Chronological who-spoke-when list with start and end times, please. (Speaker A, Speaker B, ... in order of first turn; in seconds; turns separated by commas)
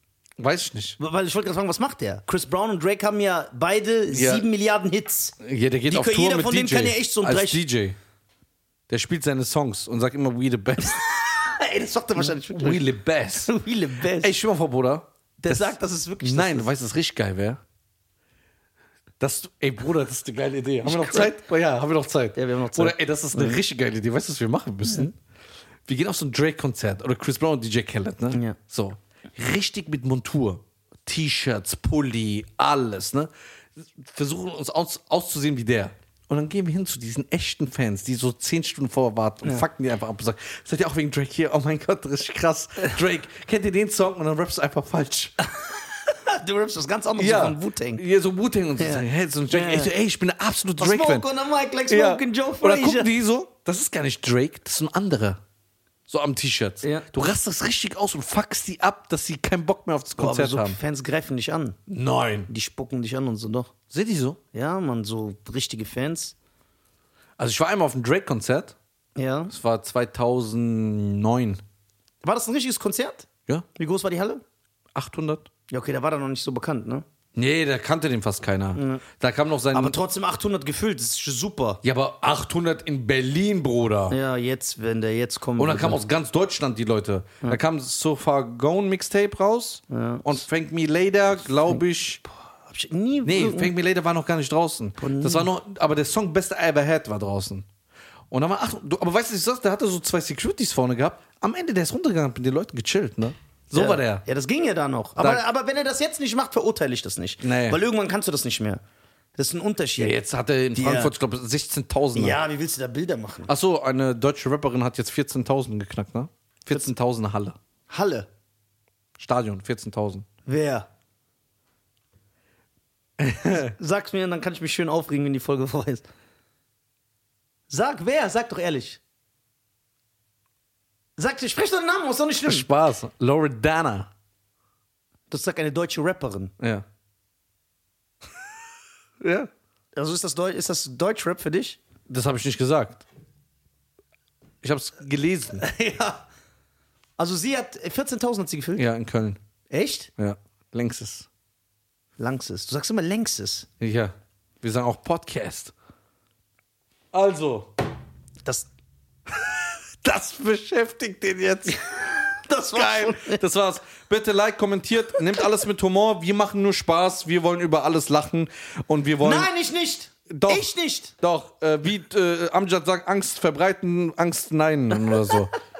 Speaker A: 0.4-1.0, Speaker B: 1.0-7.6, Speaker A: 4.1-4.5, Speaker A: 5.4-8.0, Speaker A: 8.9-11.1, Speaker B: 10.8-12.9, Speaker A: 12.2-13.5, Speaker B: 13.4-14.3, Speaker A: 14.1-17.6, Speaker B: 15.4-16.7, Speaker A: 19.2-25.1, Speaker B: 20.9-21.3, Speaker B: 22.4-23.6, Speaker A: 25.9-45.4, Speaker B: 28.3-28.6, Speaker B: 45.6-48.0, Speaker A: 47.2-51.3, Speaker B: 48.8-49.9, Speaker B: 50.8-53.1, Speaker A: 51.9-55.4, Speaker A: 56.1-60.8, Speaker B: 56.8-57.1, Speaker B: 60.2-61.8, Speaker A: 61.9-62.5, Speaker B: 62.5-63.7, Speaker A: 63.9-64.4, Speaker B: 64.5-66.3, Speaker A: 67.4-68.8, Speaker B: 69.2-69.5, Speaker A: 69.5-71.6, Speaker B: 72.2-74.4, Speaker A: 75.0-75.5, Speaker B: 75.7-77.0, Speaker A: 77.3-80.0, Speaker B: 78.8-79.0, Speaker B: 79.7-81.8, Speaker A: 81.8-84.2, Speaker B: 84.1-86.0, Speaker A: 85.6-92.2, Speaker B: 89.9-90.4, Speaker B: 92.7-93.7, Speaker A: 93.2-97.7, Speaker B: 95.0-95.5, Speaker A: 98.3-104.2, Speaker B: 103.8-108.8, Speaker A: 105.2-105.4, Speaker A: 107.4-107.8, Speaker B: 109.4-110.2, Speaker A: 110.0-112.4, Speaker B: 110.7-111.1, Speaker B: 112.1-113.5, Speaker A: 113.5-117.6, Speaker B: 117.9-118.3, Speaker A: 119.2-120.3, Speaker B: 120.5-120.9, Speaker A: 123.2-123.7, Speaker B: 123.5-126.1, Speaker B: 127.7-129.0, Speaker B: 131.2-132.7, Speaker A: 132.5-134.1, Speaker B: 135.3-136.5, Speaker A: 136.6-136.8, Speaker A: 139.2-139.5, Speaker B: 140.0-141.8, Speaker A: 142.1-143.0, Speaker A: 144.6-145.6, Speaker B: 145.6-146.2, Speaker B: 147.2-148.9, Speaker A: 148.8-149.4, Speaker B: 149.7-150.1, Speaker A: 150.2-151.3, Speaker B: 152.2-153.7, Speaker A: 153.8-155.7, Speaker A: 157.1-157.7, Speaker A: 159.3-162.1, Speaker B: 161.7-163.4, Speaker A: 162.7-169.5, Speaker B: 169.2-171.1, Speaker A: 170.3-175.5